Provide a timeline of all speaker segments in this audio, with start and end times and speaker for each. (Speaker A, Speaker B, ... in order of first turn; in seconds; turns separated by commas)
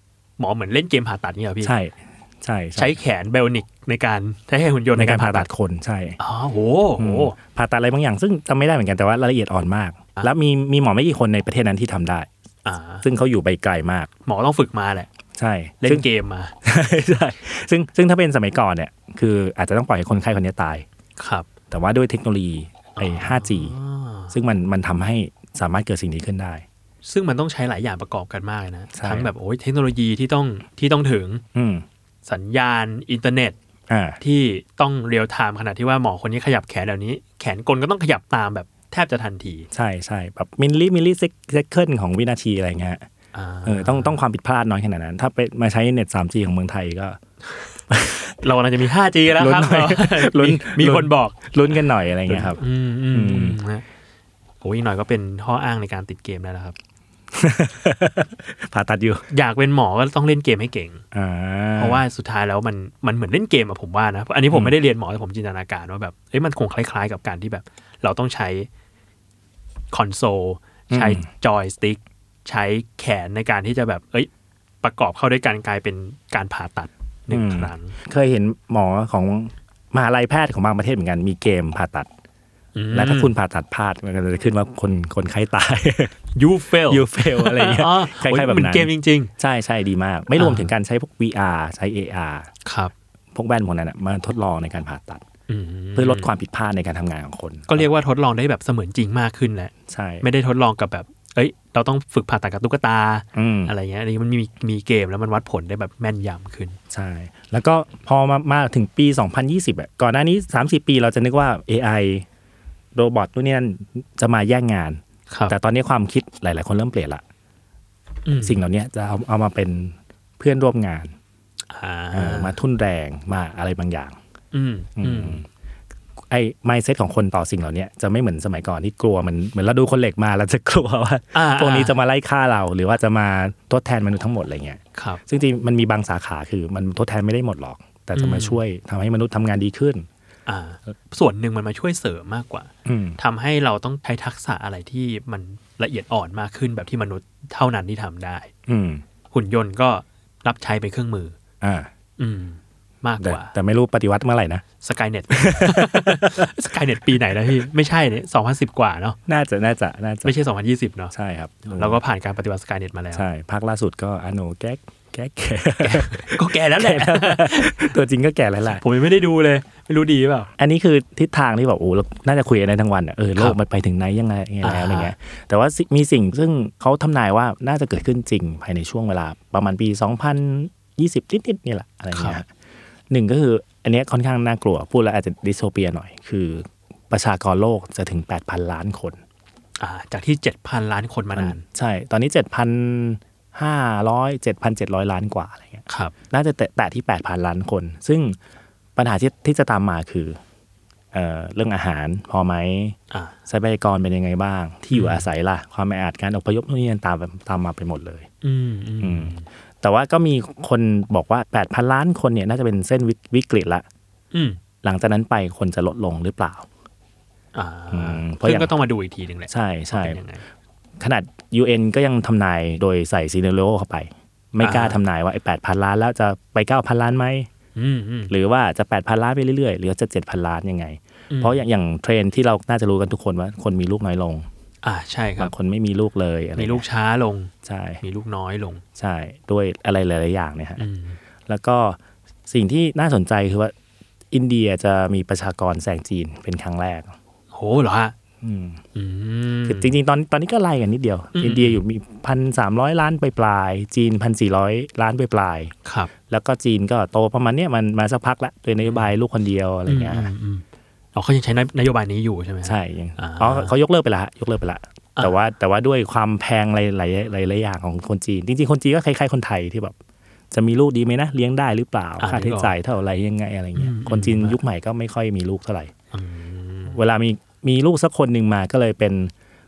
Speaker A: 0.4-1.7, Speaker B: 1.6-3.0, Speaker A: 2.8-5.5, Speaker B: 5.0-6.2, Speaker A: 6.2-7.3, Speaker B: 7.0-12.3, Speaker A: 12.7-13.1, Speaker B: 13.0-14.1, Speaker A: 14.3-15.1, Speaker B: 15.4-16.1, Speaker A: 15.8-16.5, Speaker B: 16.6-20.9, Speaker A: 21.2-21.5, Speaker B: 21.7-23.8, Speaker A: 23.0-24.3, Speaker B: 24.3-26.6, Speaker A: 27.0-31.4, Speaker B: 28.9-29.3, Speaker B: 31.5-31.9, Speaker A: 32.2-33.6, Speaker B: 33.9-34.2, Speaker A: 34.2-39.7, Speaker B: 39.7-43.1, Speaker A: 43.3-44.2, Speaker B: 43.6-47.2, Speaker B: 47.9-48.4, Speaker A: 48.4-51.4, Speaker B: 49.4-53.6, Speaker A: 52.3-53.9, Speaker A: 54.6-56.8, Speaker B: 57.3-59.2, Speaker A: 59.3-61.0, Speaker B: 61.1-62.0, Speaker A: 61.8-68.7, Speaker A: 69.9-74.3, Speaker B: 70.9-71.2, Speaker A: 74.8-78.0, Speaker B: 77.3-82.1, Speaker A: 82.8-83.3, Speaker B: 82.9-86.2, Speaker A: 86.3-89.3, Speaker B: 86.9-92.5, Speaker A: 90.4-90.7, Speaker A: 92.7-92.9, Speaker B: 93.3-95.2, Speaker A: 95.5-96.3, Speaker B: 96.0-97.9, Speaker A: 97.7-106.8, Speaker B: 99.9-100.3, Speaker B: 103.3-103.7, Speaker B: 106.9-112.3, Speaker B: 113.0-117.2, Speaker A: 118.3-118.6, Speaker B: 118.4-121.2, Speaker A: 121.7-122.5, Speaker B: 122.1-124.2, Speaker A: 124.5-125.4, Speaker B: 125.0-125.5, Speaker B: 126.3-140.1, Speaker A: 131.3-132.0, Speaker A: 134.9-135.2, Speaker A: 138.2-138.6, Speaker A: 140.5-148.5, Speaker B: 142.9-143.2, Speaker B: 148.7-149.0, Speaker A: 149.3-151.3, Speaker B: 151.6-151.9, Speaker A: 152.2-153.5, Speaker B: 153.2-154.7, Speaker A: 154.8-159.2, Speaker B: 155.3-156.5, Speaker B: 159.3-160.3, Speaker A: 160.2-161.1, Speaker B: 161.1-162.0, Speaker A: 161.7-163.2, Speaker B: 163.1-168.8, Speaker A: 165.8-167.9, Speaker A: 168.7-170.5, Speaker B: 170.6-182.5, Speaker A: 174.6-175.1, Speaker A: 182.2-182.4, Speaker B: 183.1-189.2, Speaker A: 189.8-191.6, Speaker B: 191.3-198.4, Speaker A: 195.9-196.1, Speaker B: 199.0-200.4, Speaker B: 201.1-203.0, Speaker B: 203.5-208.3, Speaker A: 204.9-205.3, Speaker A: 208.4-209.5, Speaker B: 209.0-213.8, Speaker A: 214.3-214.6, Speaker B: 214.8-216.7, Speaker A: 217.5-220.4, Speaker B: 217.9-218.7, Speaker B: 219.5-220.2, Speaker B: 221.0-227.5, Speaker A: 224.6-225.0, Speaker A: 227.8-228.3, Speaker B: 228.3-234.5, Speaker A: 231.3-231.6, Speaker A: 234.8-235.5, Speaker B: 235.4-236.8, Speaker A: 236.6-238.8, Speaker B: 237.6-238.0, Speaker B: 239.0-240.8, Speaker A: 240.8-241.2, Speaker B: 241.5-243.7, Speaker B: 244.3-247.1, Speaker A: 247.5-248.2, Speaker B: 248.4-248.8, Speaker A: 248.9-249.9, Speaker B: 249.7-255.7, Speaker A: 251.4-251.8, Speaker A: 255.8-256.1, Speaker B: 256.3-260.3, Speaker A: 259.9-260.6, Speaker A: 261.1-263.8, Speaker B: 262.6-270.0, Speaker B: 270.5-275.9, Speaker A: 272.2-272.7, Speaker A: 273.8-274.6, Speaker A: 276.1-277.0, Speaker B: 276.9-279.3